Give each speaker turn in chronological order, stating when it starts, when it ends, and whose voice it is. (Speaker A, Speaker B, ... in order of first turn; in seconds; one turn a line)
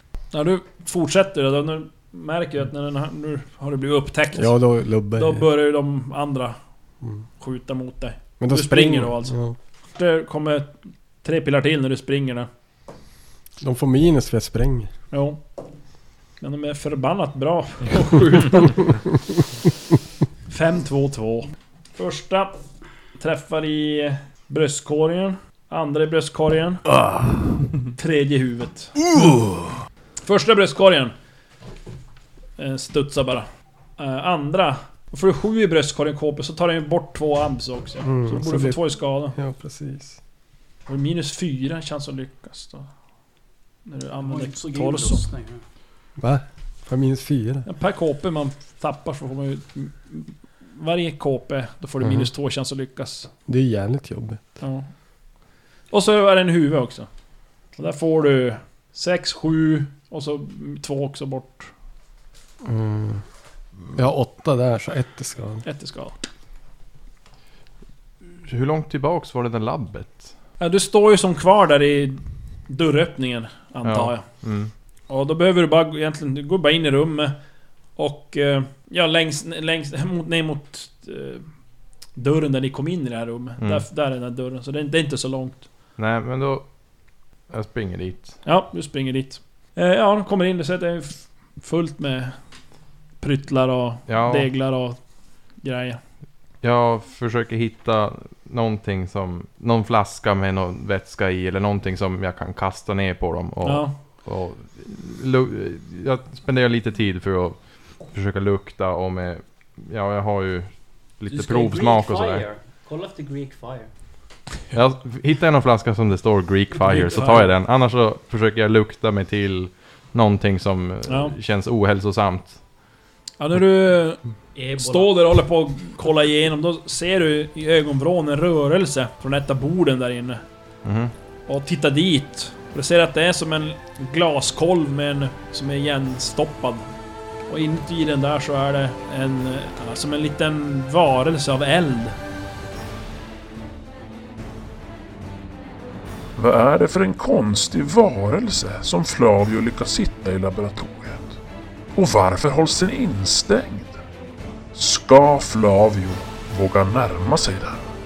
Speaker A: 0.3-4.6
Speaker B: 4.3-5.5
Speaker A: 5.1-6.6
Speaker A: 7.4-9.4
Speaker B: 8.4-9.6
Speaker A: 9.9-12.5
Speaker B: 13.6-14.9
Speaker A: 15.1-15.4
Speaker A: 16.4-18.9
Speaker A: 20.5-22.6
Speaker A: 23.2-26.8
Speaker A: 27.9-29.0
Speaker A: 30.2-31.1
Speaker A: 32.6-33.5
Speaker A: 34.0-39.4
Speaker B: 38.0-40.2
Speaker A: 40.9-42.9
Speaker A: 43.9-45.2
Speaker C: 44.2-45.6
Speaker B: 46.2-47.7
Speaker A: 47.7-53.3
Speaker B: 52.0-52.3
Speaker B: 53.5-54.4
Speaker A: 54.6-54.9
Speaker A: 55.9-57.1
Speaker A: 57.8-61.7
Speaker B: 62.6-63.2
Speaker B: 63.9-65.6
Speaker A: 65.6-66.2
Speaker D: 68.4-70.3
Speaker A: 70.6-74.3
Speaker D: 73.8-74.7
Speaker A: 75.1-77.3
Speaker A: 78.0-81.5
Speaker A: 82.1-85.7
Speaker D: 83.6-83.8
Speaker D: 86.0-86.8
Speaker D: 87.5-88.4
Speaker A: 88.4-92.4
Speaker A: 93.2-95.0
Speaker D: 94.1-94.5
Speaker A: 95.6-96.0
Speaker D: 96.6-112.5
Speaker A: 103.6-103.9
Speaker C: 111.3-113.9
Speaker D: 114.7-122.6
Speaker A: 116.8-117.5
Speaker A: 121.0-121.3
Speaker A: 123.4-130.4
Speaker C: 124.5-125.1
Speaker D: 130.8-131.1
Speaker A: 131.5-136.9
Speaker A: 137.5-142.2
Speaker E: 146.4-151.4
Speaker E: 151.9-154.0
Speaker E: 154.7-157.8